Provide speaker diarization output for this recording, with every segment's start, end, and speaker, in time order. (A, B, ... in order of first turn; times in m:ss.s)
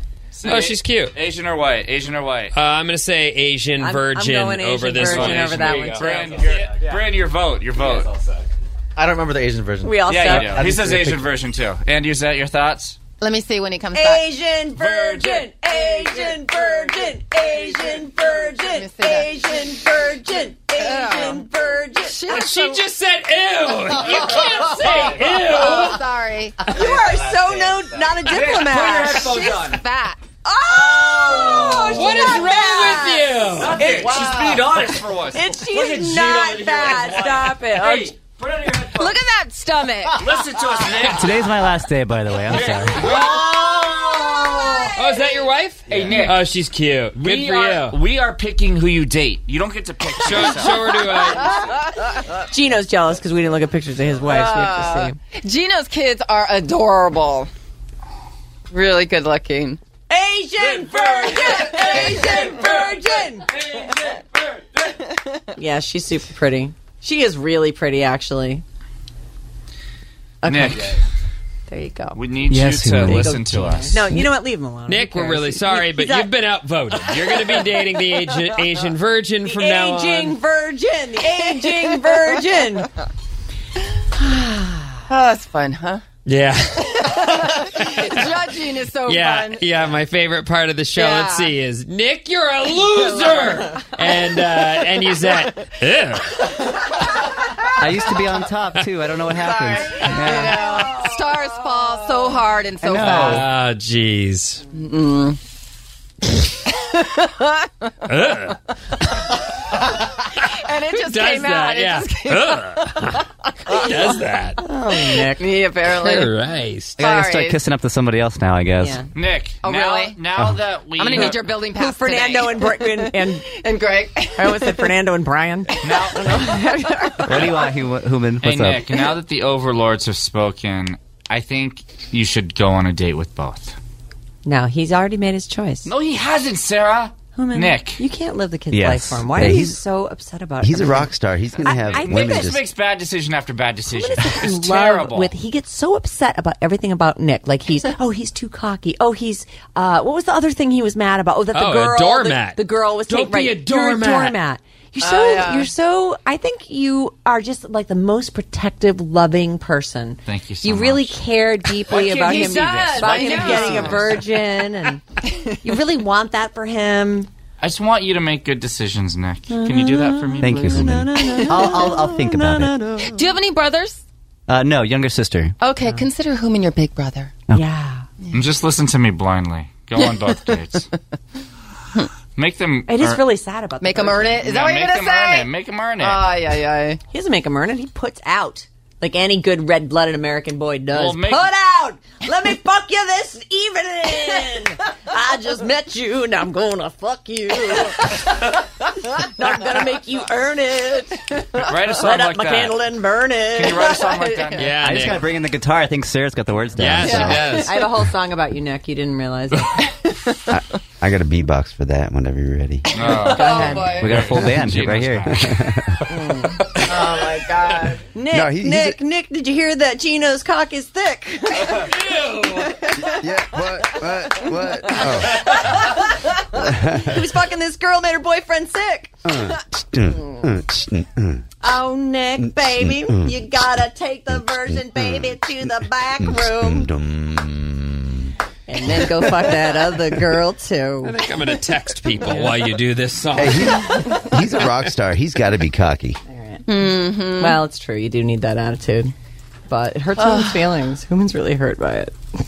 0:00.3-0:02.5 A
0:00.4-0:01.1 B
0:02.5-0:06.3 B
0:03.8-0:06.4 C
0:04.9-0:08.1 A
0:05.8-0:11.3 D
0:09.8-0:10.6 C
0:10.0-0:13.0 A
0:13.2-0:14.3 E
0:13.9-0:22.5 C
0:14.8-0:15.5 A
0:18.4-0:19.7 E
0:20.7-0:21.5 E
0:22.0-0:22.8 E
0:22.3-0:26.0 B
0:24.2-0:25.3 D
0:25.3-0:26.7 E
0:26.6-0:28.4 D
0:26.7-0:29.4 C
0:28.2-0:29.8 A
0:29.1-0:30.2 E
0:30.4-0:33.4 C
0:30.7-0:32.0 A
0:31.3-0:31.8 D
0:31.8-0:34.0 B
0:32.0-0:32.5 E
0:33.5-0:39.2 A
0:33.7-0:35.0 D
0:35.3-0:38.2 C
0:38.9-0:40.3 E
0:40.1-0:41.5 A
0:40.6-0:40.8 D
0:41.1-0:43.2 F
0:42.5-0:43.8 A
0:43.0-0:44.2 B
0:44.4-0:45.1 C
0:44.9-0:48.0 B
0:45.9-0:46.5 A
0:47.2-0:51.0 A
0:50.2-0:51.6 B
0:51.4-0:51.7 C
0:52.5-0:55.2 C
0:54.3-0:57.5 E
0:58.7-0:59.8 E
1:00.1-1:03.9 C
1:00.7-1:02.9 A
1:04.9-1:05.4 E
1:05.6-1:08.6 C
1:10.4-1:11.0 C
1:10.4-1:11.0 A
1:11.7-1:12.2 C
1:12.1-1:14.1 A
1:12.5-1:13.4 F
1:13.0-1:16.3 C
1:14.9-1:20.4 B
1:17.1-1:17.6 C
1:19.4-1:22.9 C
1:21.6-1:22.2 E
1:24.2-1:25.0 C
1:25.1-1:26.0 E
1:26.2-1:28.4 B
1:27.0-1:29.8 E
1:29.1-1:36.6 B
1:30.9-1:31.5 E
1:37.8-1:40.7 F
1:39.9-1:43.4 E
1:42.8-1:43.5 F
1:43.0-1:44.6 B
1:44.7-1:45.4 E
1:46.8-1:47.7 E
1:48.1-1:48.6 B
1:50.4-1:53.9 E
1:50.9-1:54.6 B
1:54.6-1:55.4 C
1:55.4-1:56.3 E
1:56.0-1:57.0 B
1:57.0-1:57.6 E
1:57.0-1:59.0 F
1:58.8-1:59.1 C
1:59.1-2:01.5 A
1:59.6-2:00.2 E
2:01.0-2:04.9 E
2:01.2-2:03.4 C
2:04.4-2:07.7 C
2:05.8-2:06.3 A
2:05.9-2:07.5 E
2:07.2-2:08.9 F
2:08.4-2:13.8 A
2:14.4-2:15.9 C
2:15.9-2:18.0 A
2:17.3-2:22.6 C
2:18.7-2:19.6 F
2:19.4-2:19.8 G
2:20.6-2:22.6 G
2:21.9-2:25.3 A
2:23.9-2:45.0 C
2:31.5-2:34.4 B
2:35.0-2:35.7 E
2:40.2-2:41.2 A
2:41.9-2:44.5 E
2:42.2-2:43.6 B
2:43.6-2:44.0 A
2:45.6-2:47.3 C
2:47.6-2:50.8 A
2:49.5-2:53.3 C
2:50.4-2:52.8 F
2:51.2-2:51.8 E
2:53.0-2:54.0 E
2:54.5-2:55.6 F
2:55.6-2:57.4 E
2:57.5-2:58.1 C
2:58.3-3:00.9 A
3:00.0-3:00.6 E
3:02.4-3:03.2 A
3:02.9-3:04.4 C
3:03.8-3:07.0 E
3:04.4-3:06.3 A
3:07.1-3:24.2 C
3:10.9-3:11.5 A
3:21.6-3:22.8 A
3:23.5-3:24.7 A
3:24.0-3:24.8 E
3:24.6-3:25.2 B
3:24.8-3:27.6 F
3:26.8-3:27.8 B
3:26.9-3:27.6 E
3:27.4-3:29.9 C
3:30.5-3:32.9 G
3:32.9-3:35.5 A
3:33.0-3:34.2 E
3:33.1-3:34.1 C
3:34.0-3:35.4 F
3:35.2-3:36.0 G
3:36.1-3:36.7 C
3:36.8-3:38.0 E
3:38.1-3:43.2 C
3:38.3-3:39.0 G
3:41.8-3:42.7 B
3:43.0-3:45.6 G
3:44.8-3:49.3 C
3:46.5-3:47.2 G
3:49.2-3:51.5 G
3:51.6-3:56.9 C
3:52.4-3:53.4 G
3:54.3-3:58.4 G
3:58.7-4:01.2 C
3:58.8-4:00.3 G
4:01.0-4:04.0 B
4:02.3-4:02.6 C
4:03.4-4:06.2 G
4:06.3-4:09.1 C
4:06.6-4:07.6 E
4:09.7-4:12.2 C
4:10.2-4:10.7 E